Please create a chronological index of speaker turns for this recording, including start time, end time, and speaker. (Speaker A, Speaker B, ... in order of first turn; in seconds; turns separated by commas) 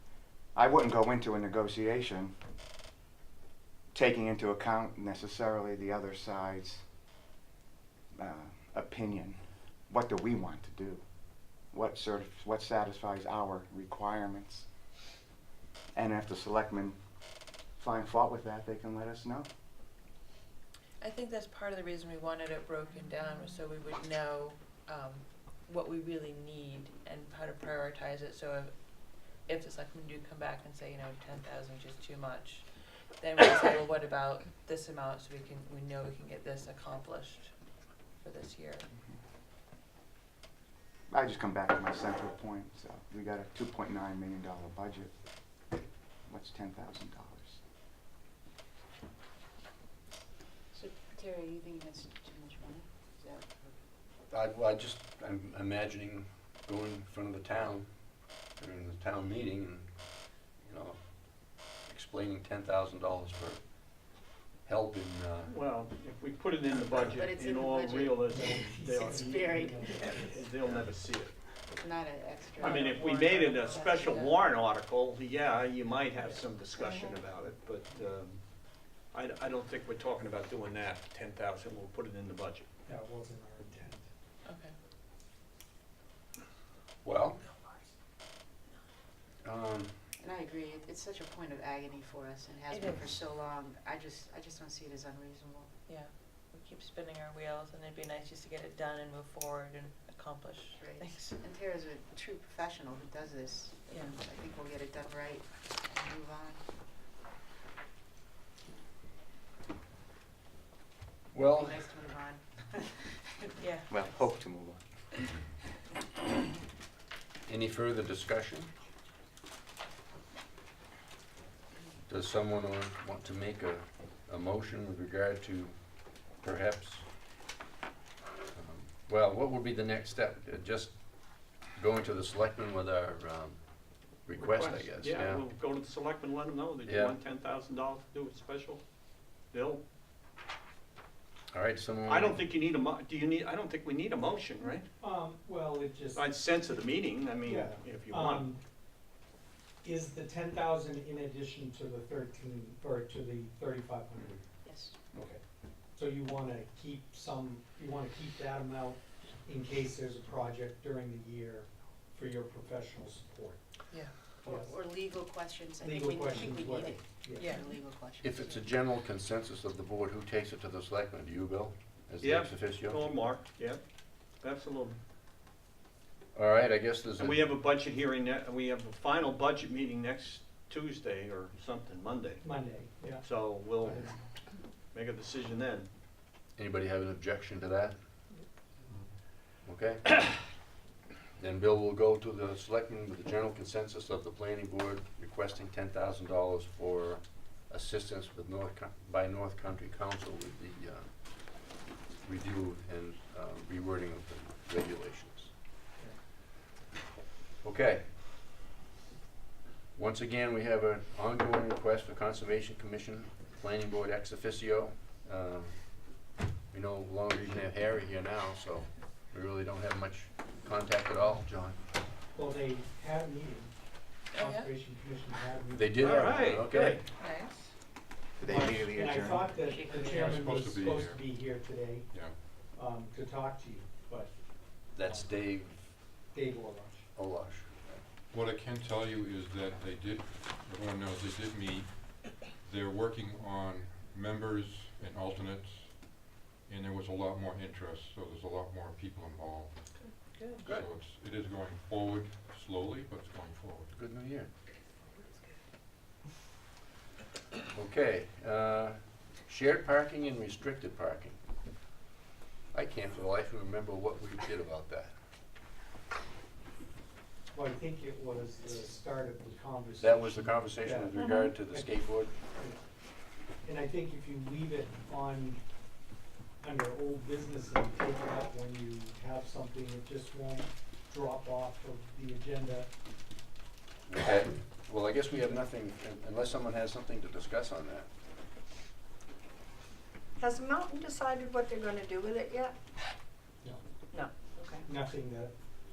Speaker A: 0.5-2.3, Speaker A: 3.9-6.8, Speaker A: 8.2-11.0, Speaker A: 11.7-14.7, Speaker A: 15.9-17.0, Speaker A: 17.8-19.5, Speaker B: 21.0-37.5, Speaker B: 38.2-38.9, Speaker A: 41.1-45.1, Speaker A: 46.3-47.6, Speaker C: 50.7-53.8, Speaker D: 54.3-65.6, Speaker E: 65.5-69.3, Speaker C: 66.9-70.4, Speaker F: 68.3-70.5, Speaker E: 70.3-71.3, Speaker C: 71.7-74.0, Speaker E: 72.6-78.4, Speaker B: 72.7-74.4, Speaker C: 76.7-77.2, Speaker E: 79.1-82.7, Speaker F: 82.9-84.1, Speaker B: 84.5-84.7, Speaker D: 87.0-87.4, Speaker D: 89.4-90.1, Speaker C: 90.2-95.7, Speaker B: 92.7-93.2, Speaker B: 95.9-101.4, Speaker C: 100.8-106.6, Speaker B: 103.9-104.2, Speaker D: 111.3-112.0, Speaker C: 111.5-114.4, Speaker B: 113.6-113.9, Speaker A: 113.9-114.8, Speaker D: 117.5-118.7, Speaker D: 122.0-127.1, Speaker D: 128.5-135.5, Speaker E: 134.4-138.8, Speaker D: 136.8-137.2, Speaker E: 139.5-139.8, Speaker D: 141.5-142.5, Speaker E: 142.1-144.9, Speaker F: 145.0-146.8, Speaker E: 146.2-148.5, Speaker F: 147.4-148.6, Speaker F: 149.8-154.4, Speaker C: 154.6-154.9, Speaker E: 155.1-155.4, Speaker F: 155.9-163.6, Speaker F: 164.4-164.8, Speaker C: 164.4-168.7, Speaker F: 165.8-167.6, Speaker B: 167.4-167.7, Speaker D: 168.2-173.2, Speaker E: 172.2-173.8, Speaker E: 174.4-175.0, Speaker D: 176.3-177.6, Speaker E: 177.2-182.4, Speaker F: 182.4-184.2, Speaker E: 183.2-184.2, Speaker E: 184.9-185.9, Speaker D: 186.6-188.0, Speaker D: 189.6-190.4, Speaker D: 191.4-205.5, Speaker D: 207.6-208.1, Speaker D: 209.9-221.8, Speaker F: 222.3-223.8, Speaker F: 224.3-227.0, Speaker B: 224.3-224.7, Speaker D: 225.7-227.0, Speaker E: 226.0-227.0, Speaker B: 227.1-227.7, Speaker A: 228.4-229.6, Speaker F: 228.5-234.3, Speaker C: 229.6-230.3, Speaker G: 229.9-231.5, Speaker F: 234.9-235.5, Speaker D: 234.9-235.9, Speaker F: 236.3-237.1, Speaker D: 237.2-238.0, Speaker G: 238.3-253.9, Speaker H: 250.0-250.5, Speaker D: 250.6-250.9, Speaker D: 253.9-254.5, Speaker D: 257.7-261.7, Speaker D: 262.7-265.1, Speaker F: 267.5-272.8, Speaker D: 270.0-272.4, Speaker H: 271.2-271.5, Speaker F: 273.6-275.6, Speaker F: 276.6-282.9, Speaker D: 284.1-288.1, Speaker H: 290.4-292.7, Speaker H: 294.1-294.8, Speaker F: 294.8-295.5